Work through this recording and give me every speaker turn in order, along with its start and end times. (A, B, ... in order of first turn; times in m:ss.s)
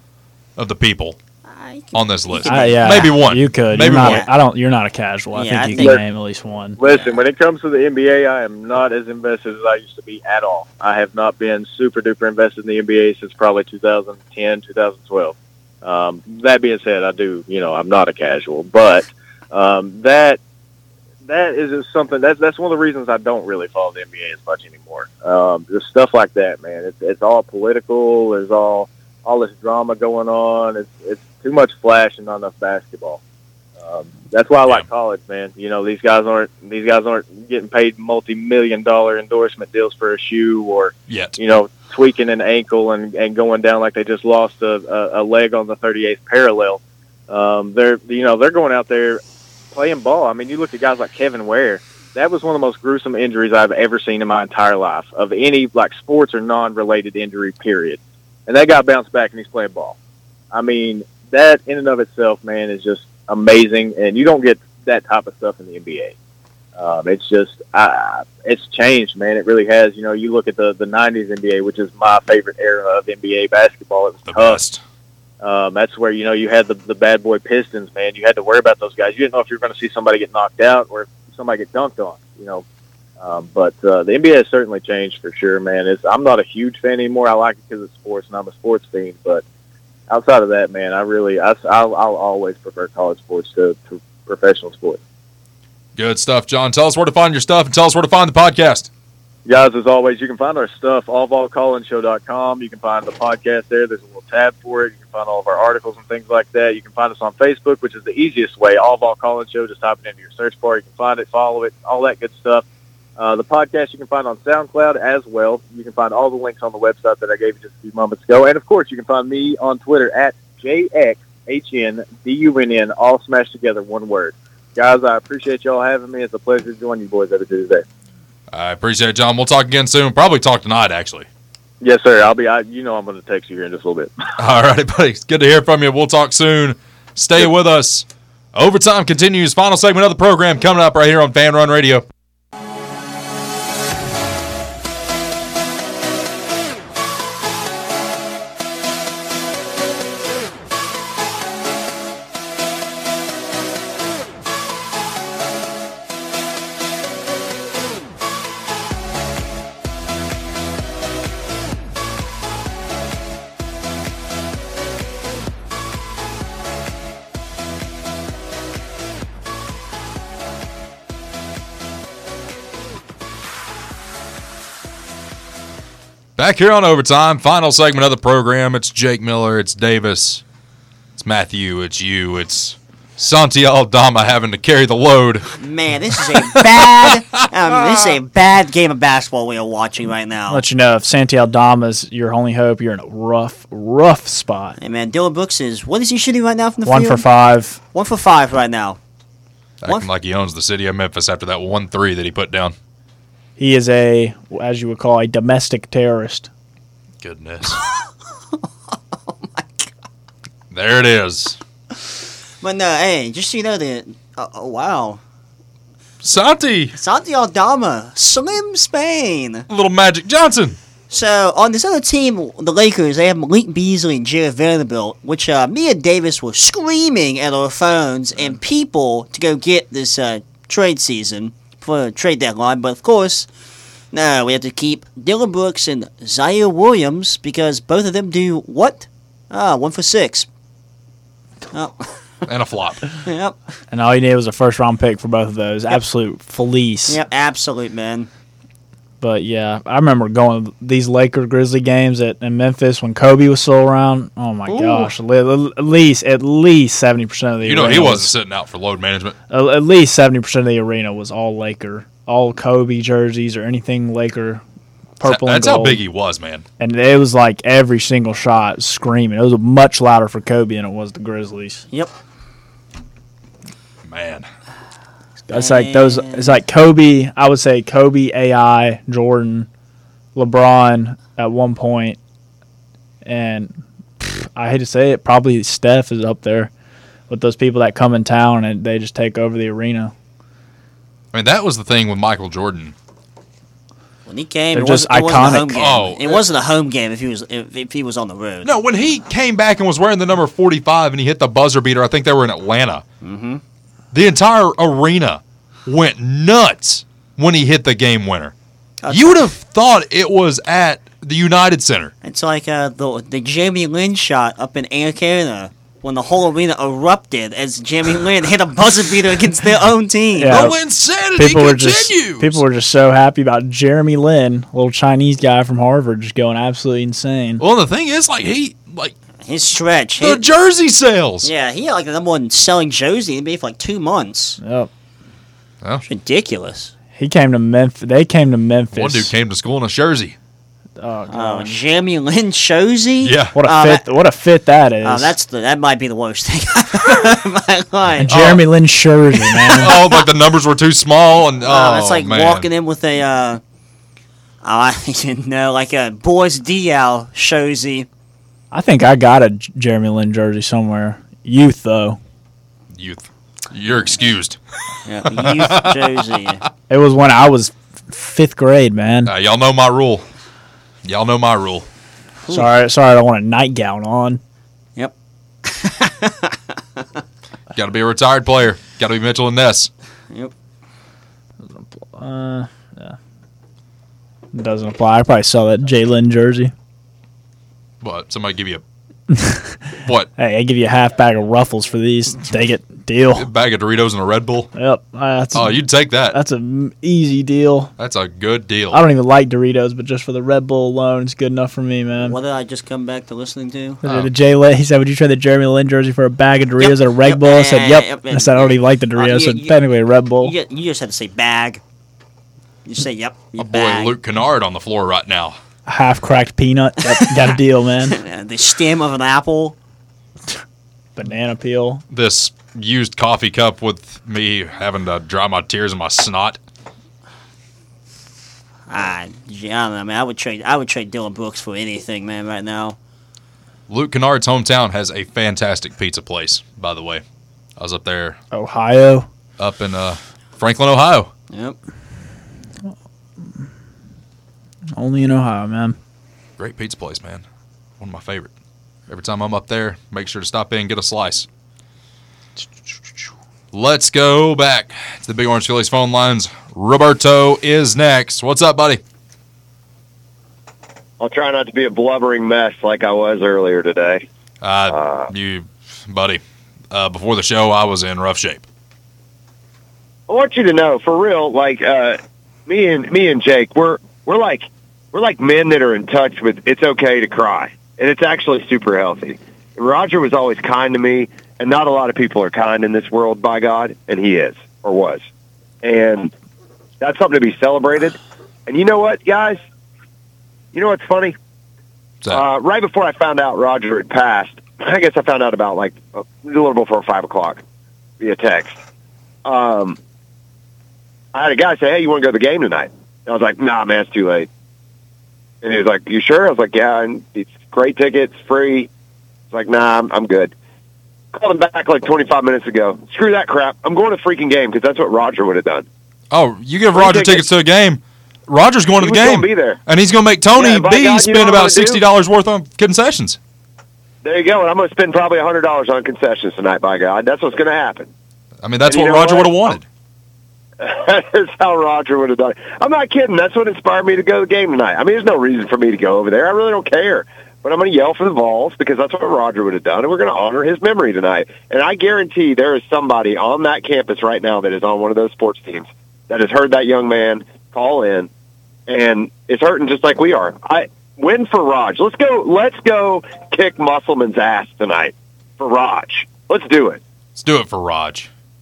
0:00.6-0:01.2 A
0:01.5-0:03.2 B
0:01.9-0:04.2 A
0:02.5-0:06.8 C
0:03.8-0:04.3 B
0:05.3-0:06.0 B
0:05.8-0:06.0 D
0:06.8-0:20.4 D
0:06.8-0:07.2 B
0:21.2-0:33.2 D
0:33.8-1:00.0 D
0:41.1-0:41.4 A
1:00.5-1:06.2 D
1:06.8-1:14.6 D
1:14.3-1:14.8 A
1:15.4-1:22.6 D
1:23.2-1:29.4 D
1:30.1-1:35.0 D
1:36.0-1:38.9 A
1:39.5-1:52.6 D
1:53.2-2:07.8 D
2:08.5-2:11.3 A
2:11.8-2:14.1 D
2:14.4-2:22.1 A
2:56.4-3:00.4 A
3:01.2-3:05.5 A
3:05.6-3:10.6 B
3:06.4-3:07.2 A
3:07.7-3:08.0 A
3:10.5-3:14.8 C
3:14.8-3:17.3 B
3:16.8-3:17.8 C
3:17.9-3:19.0 B
3:19.8-3:22.8 A
3:23.6-3:26.5 C
3:27.2-3:27.8 A
3:27.7-3:29.9 B
3:30.7-3:31.6 A
3:32.0-3:35.2 B
3:36.2-3:37.0 A
3:37.0-3:39.7 B
3:39.7-3:40.8 A
3:41.1-3:53.5 B
3:54.1-4:00.5 B
4:01.7-4:02.1 B
4:02.5-4:03.0 A
4:03.2-4:03.6 B
4:03.9-4:07.2 C
4:07.1-4:08.3 B
4:09.2-4:18.3 C
4:14.7-4:15.1 A
4:17.6-4:19.4 A
4:19.5-4:24.6 C
4:25.2-4:26.0 C
4:25.2-4:26.6 A
4:26.8-4:31.8 C
4:34.0-4:34.5 A
4:35.5-4:39.7 C
4:35.5-4:36.6 B
4:40.4-4:42.2 C
4:43.2-4:46.7 C
4:47.3-4:50.1 C
4:51.3-4:53.0 A
4:54.3-4:58.7 B
4:54.7-4:55.8 C
4:55.7-4:56.4 A
4:58.6-5:03.0 A
5:03.2-5:03.6 B
5:04.1-5:08.5 A
5:09.0-5:09.4 B
5:09.1-5:12.1 A
5:12.2-5:20.7 B
5:20.4-5:20.8 C
5:20.5-5:22.6 A
5:21.4-5:27.6 C
5:27.6-5:29.2 A
5:29.4-5:30.4 B
5:30.2-5:31.5 A
5:31.4-5:34.6 B
5:34.6-5:34.9 C
5:36.0-5:36.9 B
5:37.2-5:39.3 C
5:38.9-5:40.4 A
5:41.0-5:41.8 C
5:41.3-5:44.0 B
5:43.2-5:43.6 A
5:43.6-5:45.4 C
5:45.0-5:48.4 B
5:48.2-5:50.0 C
5:48.3-5:48.6 A
5:49.7-5:52.7 A
5:49.8-5:50.1 B
5:51.6-5:53.6 B
5:54.6-5:58.1 B
5:58.7-6:02.2 C
6:02.9-6:04.6 A
6:05.1-6:06.6 B
6:05.3-6:06.2 A
6:06.9-6:09.3 C
6:09.3-6:10.2 A
6:11.0-6:11.9 A
6:12.5-6:14.4 C
6:15.6-6:17.2 B
6:17.7-6:19.9 A
6:21.7-6:23.2 C
6:24.5-6:26.7 C
6:28.0-6:28.8 A
6:29.3-6:29.8 C
6:30.0-6:30.3 A
6:30.4-6:33.5 C
6:33.4-6:34.7 A
6:34.8-6:37.9 C
6:35.5-6:36.4 A
6:38.0-6:39.0 A
6:38.9-6:42.4 C
6:42.2-6:44.0 B
6:44.0-6:50.6 C
6:44.0-6:44.3 A
6:46.8-6:49.8 B
6:50.4-6:51.8 B
6:52.8-6:54.1 B
6:53.6-6:55.6 A
6:55.9-6:58.2 C
6:57.1-6:57.5 B
6:58.1-6:59.8 B
7:01.2-7:02.0 C
7:02.1-7:06.6 A
7:08.9-7:13.0 B
7:13.9-7:17.2 A
7:17.8-7:18.4 A
7:18.5-7:19.3 C
7:19.6-7:21.3 A
7:21.5-7:21.8 B
7:25.0-7:26.0 C
7:26.6-7:27.4 A
7:28.0-7:28.5 A
7:29.1-7:31.5 A
7:33.7-7:39.0 A
7:41.2-7:44.2 E
7:44.6-7:48.6 A
7:44.9-7:45.3 E
7:50.3-8:05.2 E
8:05.8-8:06.3 E
8:07.0-8:09.6 E
8:10.7-8:11.4 E
8:12.3-8:17.6 E
8:18.2-8:18.8 E
8:19.4-8:20.0 E
8:21.3-8:24.5 E
8:25.6-8:28.9 E
8:29.5-8:30.5 E
8:31.3-8:35.9 E
8:36.3-8:43.4 A
8:36.9-8:37.5 E
8:39.0-8:39.8 E
8:40.6-8:42.0 E
8:44.2-8:48.1 E
8:48.6-8:49.8 A
8:48.9-8:49.8 E
8:50.8-9:08.3 E
9:08.9-9:17.0 E
9:17.4-9:18.3 A